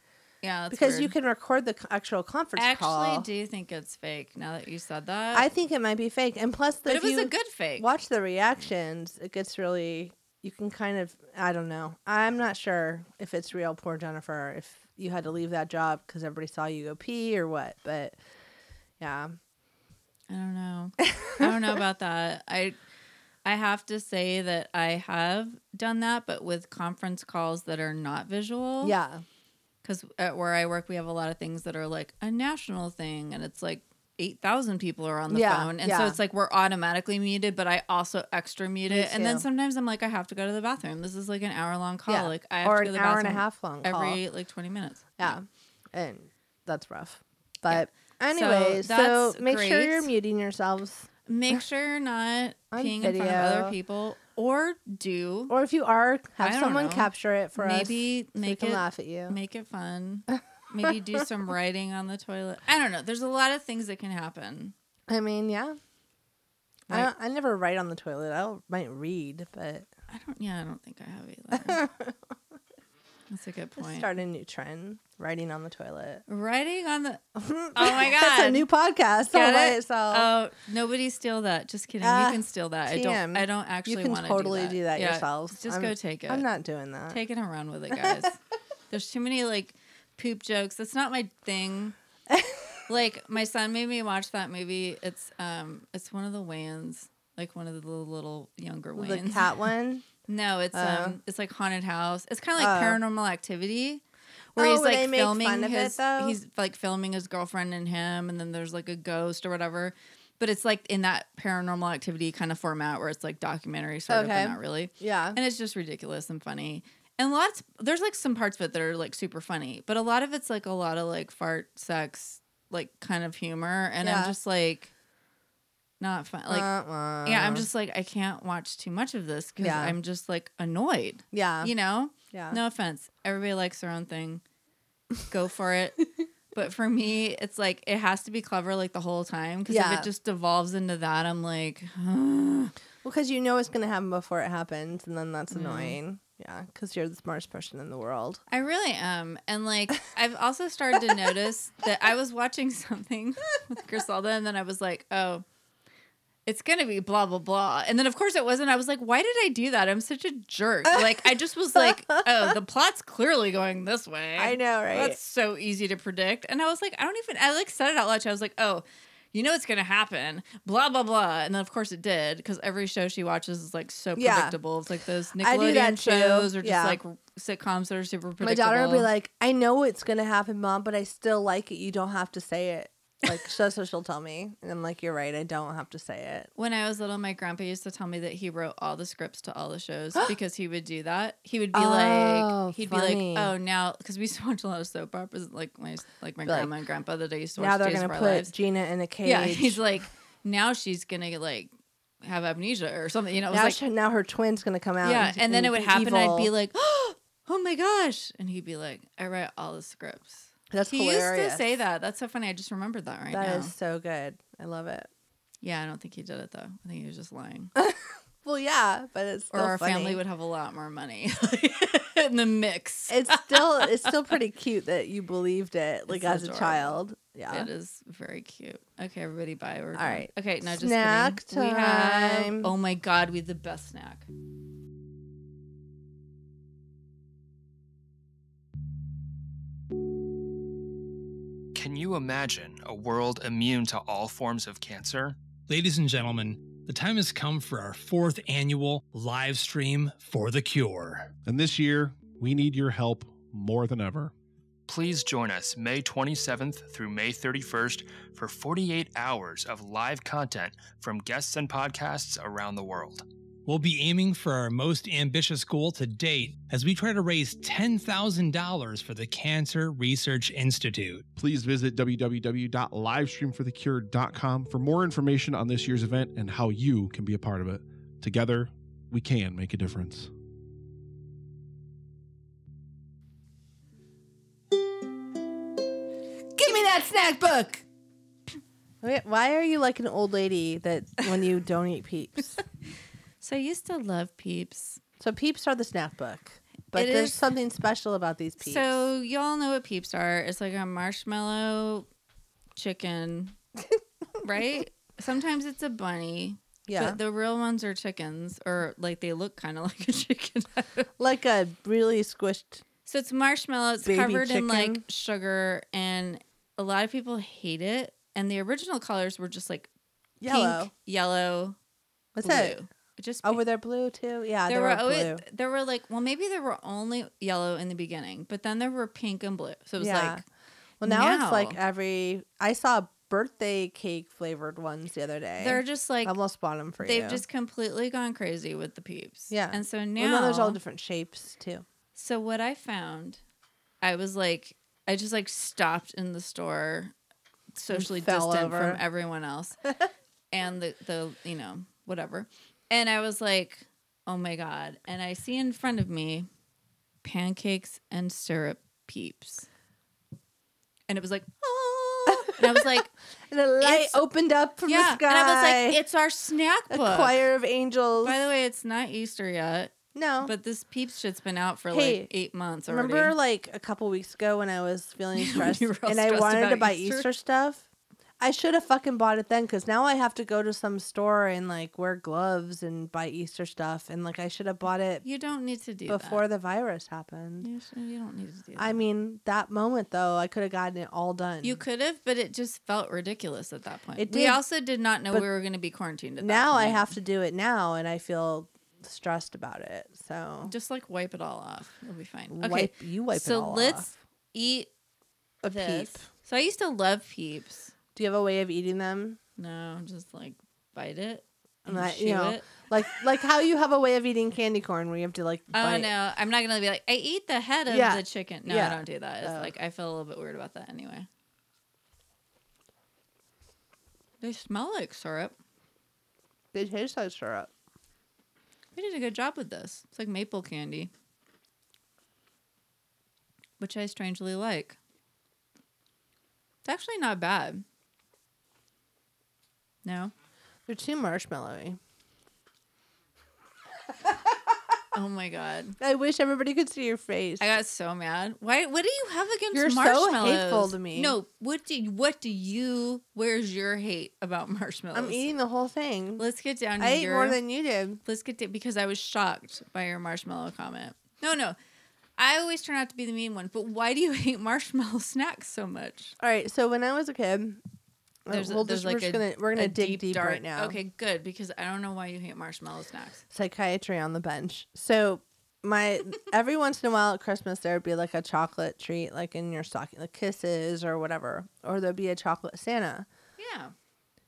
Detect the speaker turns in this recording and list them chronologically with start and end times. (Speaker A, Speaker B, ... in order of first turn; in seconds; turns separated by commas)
Speaker A: 0.4-1.1, Speaker B: 0.7-3.3, Speaker A: 2.6-5.5, Speaker B: 5.3-18.2, Speaker A: 6.9-7.9, Speaker B: 19.0-19.4, Speaker A: 20.3-22.8, Speaker B: 21.1-21.5, Speaker A: 23.4-29.0, Speaker B: 28.8-29.2, Speaker A: 29.8-45.4, Speaker B: 35.3-36.2, Speaker B: 38.9-39.5, Speaker B: 42.1-44.2, Speaker B: 45.2-51.1, Speaker A: 47.7-50.1, Speaker A: 51.3-55.5, Speaker B: 52.7-53.8, Speaker B: 55.5-59.4, Speaker A: 56.4-64.7, Speaker B: 65.1-65.8, Speaker B: 66.9-69.9, Speaker A: 70.1-71.8, Speaker B: 71.5-72.2, Speaker A: 73.3-74.1, Speaker B: 73.8-76.2, Speaker A: 76.3-77.2, Speaker B: 77.4-80.3, Speaker A: 77.8-78.7, Speaker A: 79.3-86.5, Speaker B: 82.0-87.2, Speaker A: 87.1-88.4, Speaker B: 87.9-88.2, Speaker A: 88.9-92.0, Speaker B: 92.3-92.6, Speaker A: 92.9-99.5, Speaker B: 99.0-100.1, Speaker A: 100.3-104.0, Speaker B: 100.7-101.2, Speaker B: 102.6-103.0, Speaker A: 104.5-124.9, Speaker B: 104.6-106.4, Speaker B: 114.1-115.4, Speaker B: 124.0-124.3, Speaker A: 126.0-126.7, Speaker B: 126.5-127.7, Speaker A: 127.2-134.4, Speaker B: 129.6-130.0, Speaker B: 131.3-131.7, Speaker B: 132.3-132.6, Speaker A: 135.3-142.7, Speaker B: 139.7-140.1, Speaker B: 143.0-148.4, Speaker A: 145.5-146.0, Speaker A: 148.5-155.4, Speaker A: 156.5-179.1, Speaker B: 161.8-162.5, Speaker B: 164.4-165.2, Speaker B: 174.2-174.6, Speaker B: 175.4-177.0, Speaker B: 178.4-186.5, Speaker A: 186.6-198.5, Speaker B: 191.7-193.5, Speaker B: 197.6-199.8, Speaker A: 199.2-201.7, Speaker A: 202.2-203.8, Speaker B: 203.5-206.5, Speaker A: 205.0-213.7, Speaker B: 210.7-211.7, Speaker B: 213.3-215.1, Speaker A: 215.6-217.7, Speaker B: 217.8-220.2, Speaker A: 219.5-224.1, Speaker B: 223.1-227.7, Speaker A: 226.1-227.0, Speaker A: 227.5-234.3, Speaker B: 229.9-232.7, Speaker C: 241.8-245.4, Speaker D: 245.7-251.3, Speaker E: 251.4-254.3, Speaker C: 254.9-263.2, Speaker D: 263.7-271.3, Speaker E: 271.4-280.3, Speaker B: 286.6-287.9, Speaker B: 289.0-292.6, Speaker A: 293.4-295.0, Speaker B: 295.2-299.0, Speaker A: 296.9-297.4, Speaker A: 298.6-302.1, Speaker A: 302.8-303.6, Speaker A: 304.4-311.1, Speaker B: 306.9-307.2, Speaker B: 311.2-312.8, Speaker A: 313.1-319.9, Speaker B: 314.1-315.0, Speaker B: 320.4-320.9, Speaker A: 320.5-321.8, Speaker B: 322.4-322.8, Speaker A: 322.4-323.6, Speaker B: 323.4-325.4, Speaker A: 324.7-330.4, Speaker B: 330.0-330.4, Speaker B: 331.0-337.4, Speaker A: 331.0-331.8, Speaker A: 335.6-336.4, Speaker A: 337.0-340.8, Speaker B: 339.5-341.9, Speaker A: 342.2-343.4, Speaker A: 344.0-347.1, Speaker A: 347.8-349.8, Speaker B: 347.9-349.0, Speaker A: 350.5-356.5, Speaker A: 357.2-359.7, Speaker A: 361.1-363.1, Speaker B: 362.3-362.9, Speaker B: 363.5-366.0, Speaker A: 363.8-364.2, Speaker A: 364.9-367.4, Speaker B: 366.9-368.4, Speaker A: 368.2-373.4, Speaker B: 370.1-370.5, Speaker B: 371.9-372.3, Speaker B: 372.9-377.8, Speaker A: 375.4-377.3, Speaker B: 378.4-385.2, Speaker A: 385.2-386.4, Speaker B: 386.1-387.7, Speaker A: 387.6-389.0, Speaker B: 388.8-391.8, Speaker A: 391.6-397.1, Speaker B: 394.2-394.6, Speaker B: 396.4-400.7, Speaker A: 400.6-404.9, Speaker B: 402.5-404.1, Speaker B: 405.6-406.3, Speaker A: 405.7-407.9, Speaker B: 408.1-409.4, Speaker A: 409.6-412.7, Speaker B: 411.9-416.1, Speaker A: 415.7-421.3, Speaker B: 417.9-419.7, Speaker A: 424.4-425.6, Speaker B: 426.7-427.7, Speaker A: 428.9-431.1, Speaker A: 433.8-435.0, Speaker A: 436.9-437.8, Speaker A: 440.1-440.3, Speaker B: 440.9-442.0, Speaker A: 445.1-446.0, Speaker B: 446.0-447.7, Speaker A: 447.6-455.5, Speaker B: 449.7-451.4, Speaker B: 455.1-456.4, Speaker A: 456.4-457.6, Speaker B: 457.0-458.2, Speaker A: 458.2-461.8, Speaker A: 462.4-466.3, Speaker B: 466.4-467.8, Speaker B: 468.5-471.0, Speaker A: 468.5-473.4, Speaker B: 473.5-483.3, Speaker A: 483.6-483.9